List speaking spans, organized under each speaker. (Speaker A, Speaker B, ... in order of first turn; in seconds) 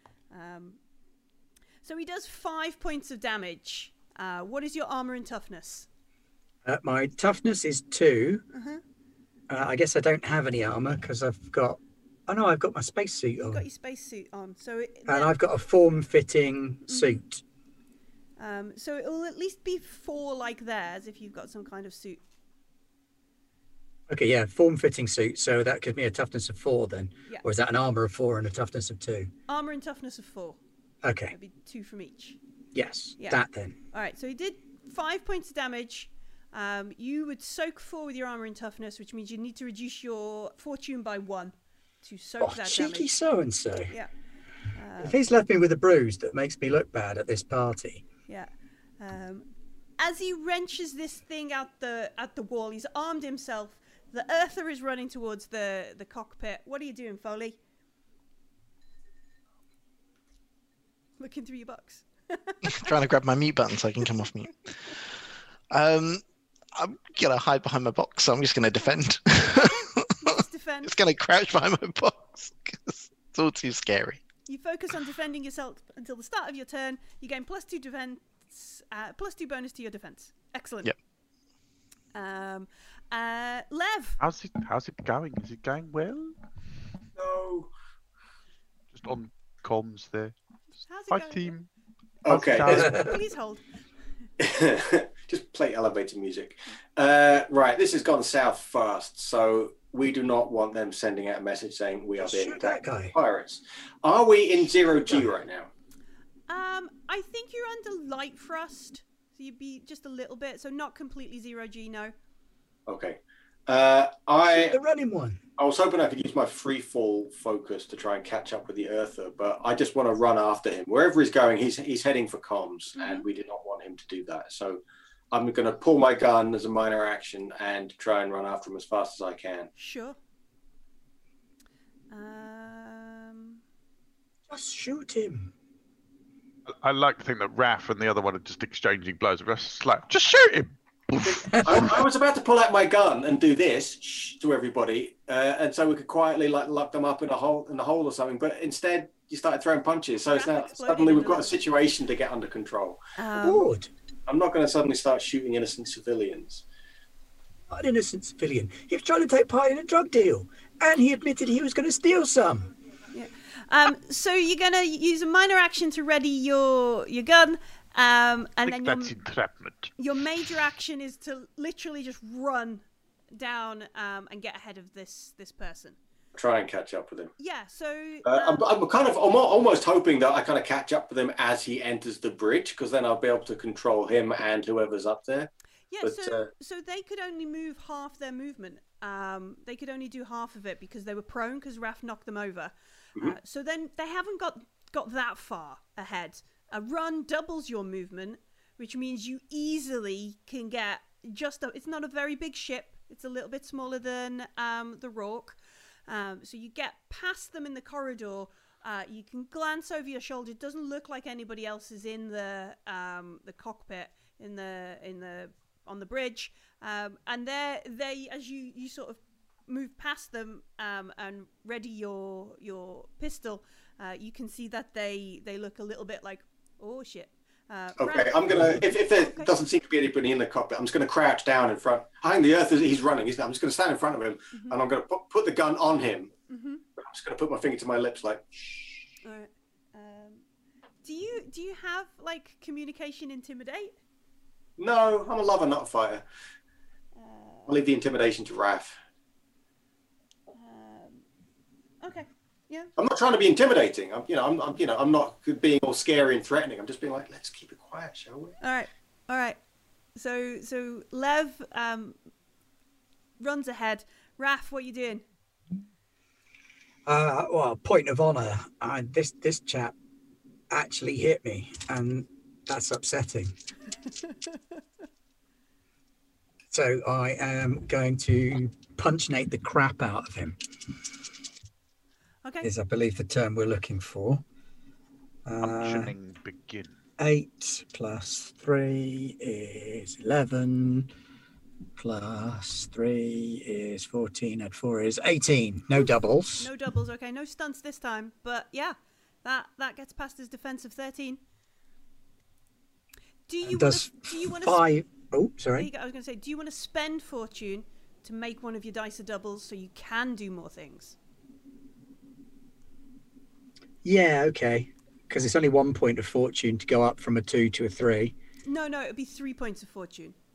Speaker A: 0.3-0.8, 1.8-5.9, 8.5-8.8, 13.5-15.3, 16.9-17.2, 18.4-22.2, 29.5-30.6, 31.3-32.4, 33.2-43.1, 44.7-45.2, 48.3-49.5, 50.0-57.6, 61.2-62.9, 69.4-70.9, 74.5-80.9, 82.1-84.2, 90.9-91.5, 92.7-93.6, 106.5-112.1, 123.0-123.2, 129.8-130.2, 132.1-133.6, 150.3-151.6, 153.2-153.7, 163.1-169.1, 170.0-176.0, 177.4-178.6, 185.9-229.5, 234.5-234.8, 236.5-236.8, 239.2-240.4, 241.0-243.9, 247.2-247.8, 250.6-251.2, 252.0-252.9, 258.6-259.6, 260.1-262.1, 263.4-265.2, 274.2-274.6, 282.4-282.7, 296.6-301.4, 303.5-304.8, 305.8-311.1, 318.6-320.3
Speaker B: 6.6-8.4, 9.5-13.6, 15.1-17.4, 24.1-29.3, 31.0-31.3, 32.7-33.8, 42.4-43.9, 45.0-48.0, 92.7-93.1, 102.2-103.1, 114.6-115.4, 134.5-135.5, 141.5-141.9, 153.4-153.9, 157.7-162.7, 267.1-269.9, 270.7-273.5, 276.7-280.6, 282.6-284.4, 285.4-286.1, 287.2-291.1, 292.0-296.7, 303.6-305.9, 314.0-318.3
Speaker C: 62.6-65.0, 65.7-66.2, 66.7-74.2
Speaker D: 84.2-86.3, 88.9-90.3, 91.1-91.7, 92.3-93.1, 136.7-142.0, 168.7-169.9, 285.6-286.9
Speaker E: 87.2-87.7, 92.2-92.9, 94.4-105.7, 112.9-114.8, 115.6-124.8, 125.3-129.7, 141.2-153.0, 154.3-156.6, 176.3-177.3, 178.2-185.5, 186.0-186.5, 228.0-236.3, 237.0-238.5, 244.8-246.2, 247.7-249.0, 253.0-258.6